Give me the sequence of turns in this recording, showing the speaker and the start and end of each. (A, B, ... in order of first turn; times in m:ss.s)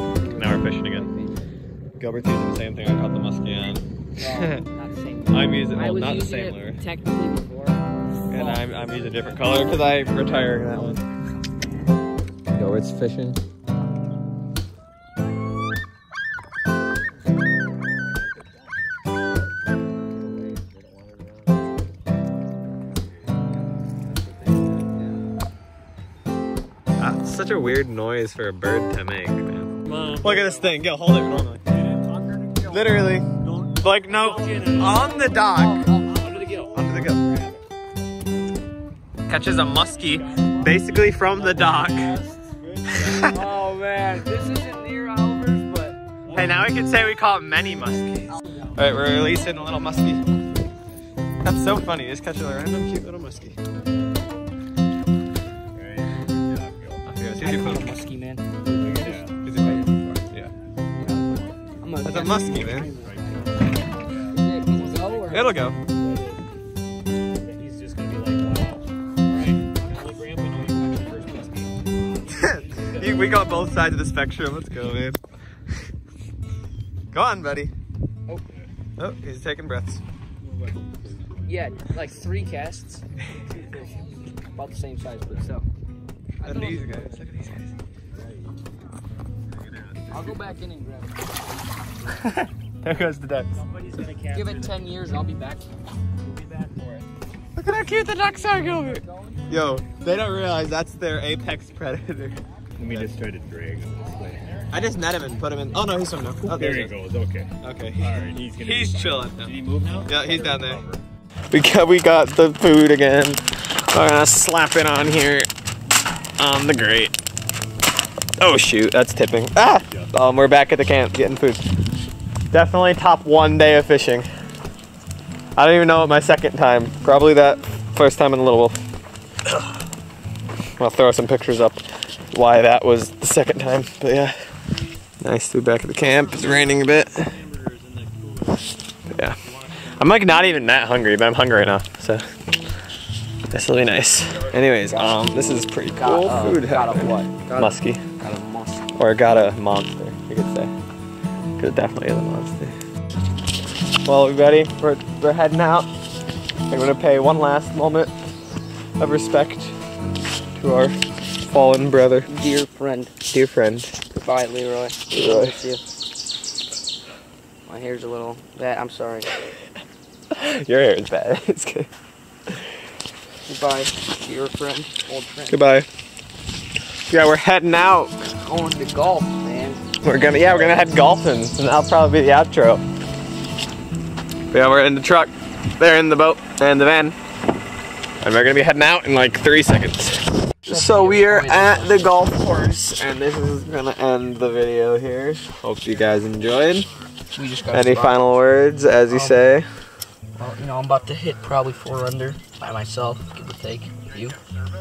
0:00.2-0:01.4 A
0:00.3-0:01.1 B
0:02.0-0:04.6 B
0:04.2-0:09.9 A
0:05.3-0:06.8 B
0:08.3-0:11.0 B
0:12.5-0:13.4 B
0:17.9-0:18.6 C
0:20.1-0:21.7 C
0:27.0-0:31.6 B
0:29.8-0:30.6 D
0:31.7-0:35.1 C
0:32.6-0:33.3 B
0:33.8-0:36.0 B
0:34.1-0:35.1 D
0:35.0-0:37.4 A
0:36.0-0:36.8 D
0:36.7-0:37.2 B
0:39.3-0:42.1 B
0:39.9-0:43.3 C
0:41.3-0:42.4 D
0:43.0-0:43.5 B
0:43.1-0:46.0 A
0:46.3-0:46.6 C
0:46.3-0:50.2 B
0:51.4-0:53.6 B
0:55.7-0:57.0 C
0:57.0-0:58.0 B
0:57.4-1:00.0 A
0:58.7-0:59.4 C
0:59.3-1:00.5 B
1:01.0-1:03.5 A
1:01.0-1:01.5 C
1:02.0-1:02.9 B
1:02.1-1:05.4 C
1:04.3-1:05.5 A
1:05.2-1:05.8 B
1:05.8-1:06.4 D
1:07.3-1:11.8 D
1:12.3-1:15.2 B
1:12.8-1:13.0 D
1:17.1-1:17.7 B
1:19.0-1:20.0 B
1:20.4-1:21.4 C
1:21.4-1:23.0 A
1:24.5-1:25.6 A
1:26.4-1:27.2 A
1:26.4-1:27.7 B
1:29.7-1:30.4 C
1:30.1-1:31.2 A
1:32.1-1:33.6 B
1:33.6-1:34.9 D
1:34.3-1:35.6 A
1:36.2-1:37.1 D
1:37.6-1:43.1 B
1:42.8-1:44.6 C
1:44.7-1:46.9 B
1:46.4-1:51.0 C
1:47.6-1:50.8 B
1:49.8-1:50.1 D
1:51.5-1:55.5 B
1:56.4-1:57.1 B
1:58.4-2:01.6 B
2:02.5-2:04.3 B
2:05.6-2:08.8 B
2:10.8-2:14.3 B
2:15.2-2:17.4 B
2:16.0-2:18.7 D
2:19.1-2:19.4 B
2:19.4-2:19.8 D
2:20.0-2:22.2 B
2:23.5-2:28.0 B
2:24.8-2:25.3 A
2:26.0-2:28.8 A
2:28.9-2:30.7 B
2:31.6-2:32.7 B
2:34.0-2:35.9 B
2:36.7-2:38.1 B
2:39.0-2:39.7 B
2:40.6-2:42.3 B
2:42.2-2:43.1 A
2:43.3-2:44.0 B
2:44.1-2:45.8 A
2:45.1-2:45.6 B
2:47.7-2:49.3 A
2:50.3-2:51.9 B
2:53.4-2:55.6 A
2:55.5-2:55.9 B
2:57.1-2:58.2 B
2:58.4-2:59.8 A
3:00.0-3:02.8 B
3:04.5-3:07.1 B
3:08.2-3:16.9 B
3:10.6-3:12.2 A
3:17.3-3:18.2 A
3:17.7-3:19.7 B
3:19.1-3:19.4 A
3:20.4-3:24.4 A